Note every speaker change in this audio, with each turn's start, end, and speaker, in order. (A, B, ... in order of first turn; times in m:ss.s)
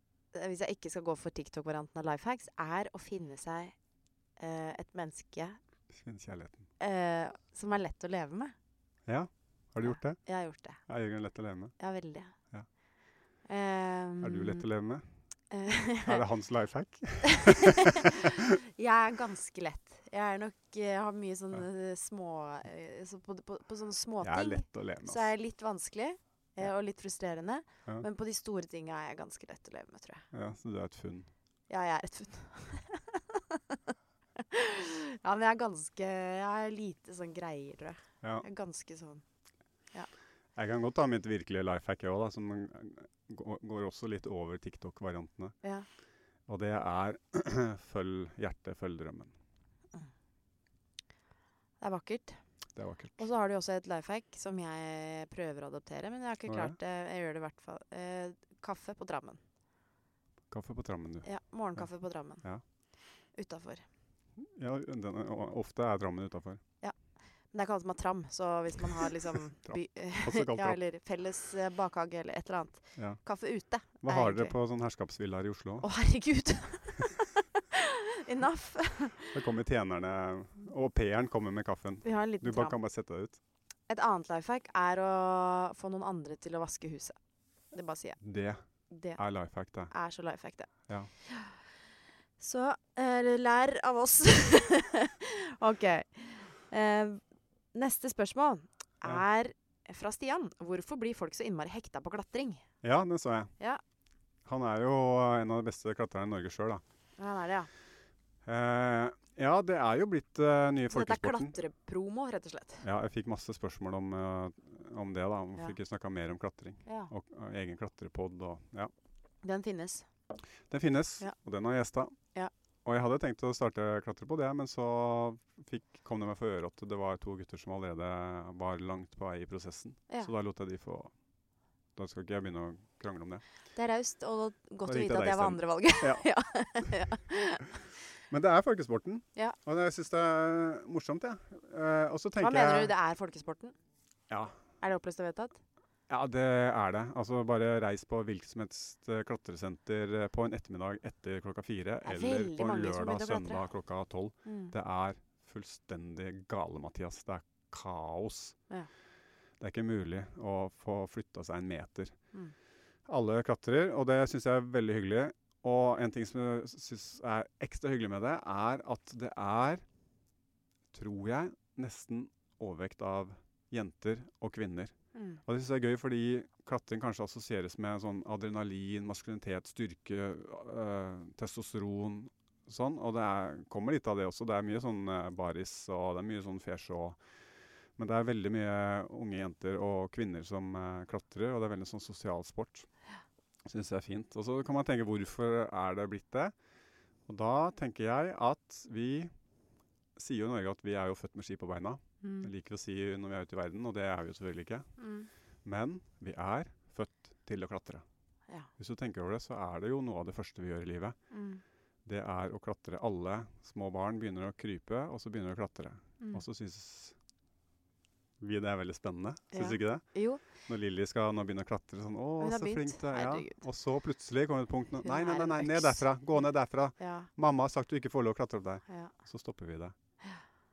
0:00.3-0:03.7 A
0:04.4-0:05.6 A
0:05.9-0:06.6 B
0:06.8-0:08.5 A
0:09.0-0:10.2 B
0:09.8-0:10.8 A
0:10.9-0:11.7 B
0:11.8-0:12.3 A
0:13.4-0:14.6 A
0:14.2-0:15.0 B
0:15.5-0:16.2 A
0:16.0-0:18.1 B
0:17.2-0:30.2 A
0:24.2-0:25.2 B
0:30.3-0:31.3 B
0:31.7-0:33.8 A
0:34.4-0:39.2 A
0:40.6-0:45.6 B
0:45.6-0:45.9 A
0:46.5-0:49.3 B
0:51.8-0:52.4 A
0:52.8-0:53.2 B
0:53.2-0:59.4 A
0:56.5-0:56.8 B
1:00.5-1:01.8 B
1:01.2-1:02.4 A
1:03.3-1:03.8 A
1:04.4-1:06.6 B
1:07.5-1:14.6 A
1:09.6-1:10.8 B
1:14.0-1:15.9 B
1:15.8-1:19.4 A
1:19.3-1:23.4 B
1:22.0-1:22.8 A
1:23.9-1:27.2 A
1:27.7-1:28.2 A
1:28.2-1:28.6 B
1:28.9-1:29.2 A
1:29.2-1:29.9 B
1:29.9-1:30.7 A
1:31.2-1:31.6 A
1:32.4-1:37.2 A
1:37.7-1:42.6 A
1:42.8-1:43.5 B
1:44.4-1:46.8 B
1:47.2-1:47.7 A
1:48.4-1:51.6 B
1:50.9-1:52.8 A
1:52.8-1:58.9 B
1:56.8-1:57.1 A
1:59.4-2:00.0 A
2:00.7-2:02.1 B
2:02.8-2:11.1 B
2:12.0-2:13.4 B
2:13.7-2:17.7 A
2:14.8-2:16.3 B
2:18.3-2:22.9 B
2:22.4-2:23.7 A
2:24.3-2:24.6 B
2:24.8-2:25.6 A
2:26.1-2:38.6 B
2:32.0-2:33.6 A
2:34.4-2:34.7 A
2:39.6-2:42.2 B
2:43.1-2:49.8 B
2:50.9-2:54.9 B
2:55.1-2:55.4 A
2:55.4-3:07.2 B
3:08.0-3:12.9 B
3:13.6-3:16.5 B
3:17.3-3:19.3 B
3:20.2-3:24.9 B
3:22.2-3:22.5 A
3:25.0-3:25.3 A
3:25.6-3:28.0 B
3:28.8-3:31.2 B
3:31.3-3:31.6 A
3:32.0-3:37.2 B
3:38.4-3:49.9 B
3:39.5-3:40.4 A
3:42.4-3:43.6 A
3:45.0-3:46.0 A
3:47.0-3:47.3 A